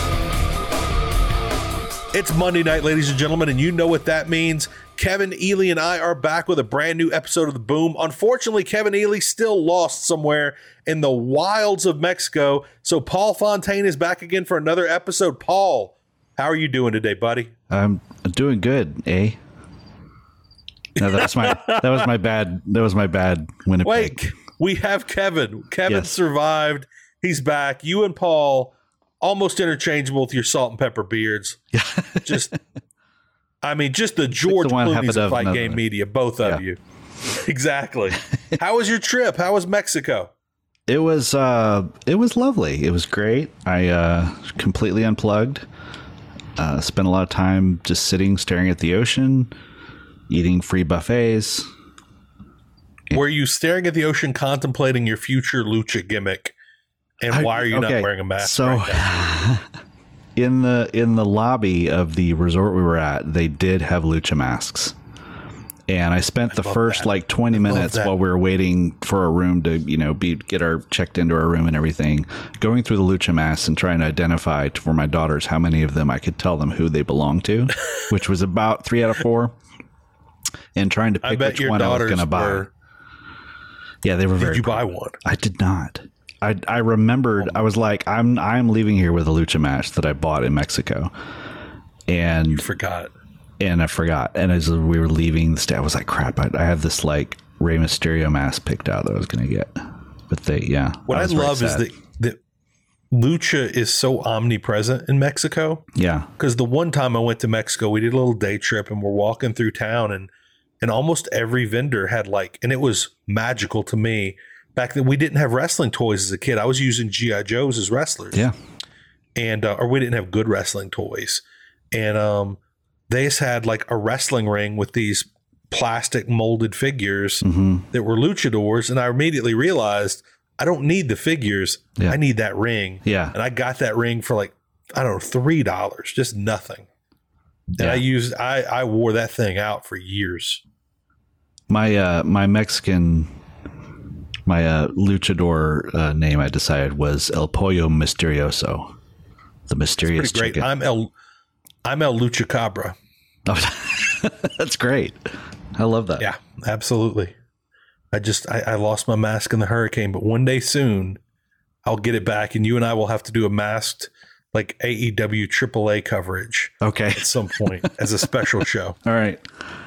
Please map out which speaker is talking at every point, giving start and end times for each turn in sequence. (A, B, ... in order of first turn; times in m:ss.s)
0:02.1-0:17.5 A
0:17.7-0:19.4 B
0:21.0-0:24.2 B
0:21.0-0:21.8 A
0:23.8-0:31.6 A
0:31.7-0:32.6 B
0:32.2-0:32.5 A
0:33.6-0:36.8 A
0:34.5-0:35.8 B
0:37.4-0:40.3 A
0:40.9-0:45.7 B
0:46.6-0:49.5 B
0:50.3-0:51.7 B
0:53.1-0:56.6 A
0:57.2-0:59.1 A
0:57.3-0:59.7 B
1:00.4-1:05.0 B
1:05.9-1:19.6 B
1:06.5-1:08.1 A
1:20.8-1:22.7 B
1:21.2-1:22.7 A
1:24.0-1:31.1 B
1:24.4-1:25.2 A
1:32.1-1:32.6 B
1:32.5-1:33.1 A
1:33.6-1:41.8 B
1:41.1-1:42.4 A
1:43.1-1:45.9 A
1:46.0-1:46.3 B
1:46.4-1:50.3 A
1:50.8-1:58.5 A
1:59.4-2:16.9 A
2:07.4-2:07.9 B
2:13.0-2:13.4 B
2:17.7-2:20.6 A
2:21.7-2:23.3 B
2:24.5-2:28.9 B
2:29.7-2:30.7 B
2:30.1-2:31.1 A
2:31.8-2:33.0 A
2:33.5-2:36.3 B
2:36.2-2:37.3 A
2:38.1-2:41.2 A
2:41.8-2:49.0 A
2:46.8-2:47.9 B
2:49.0-2:49.4 B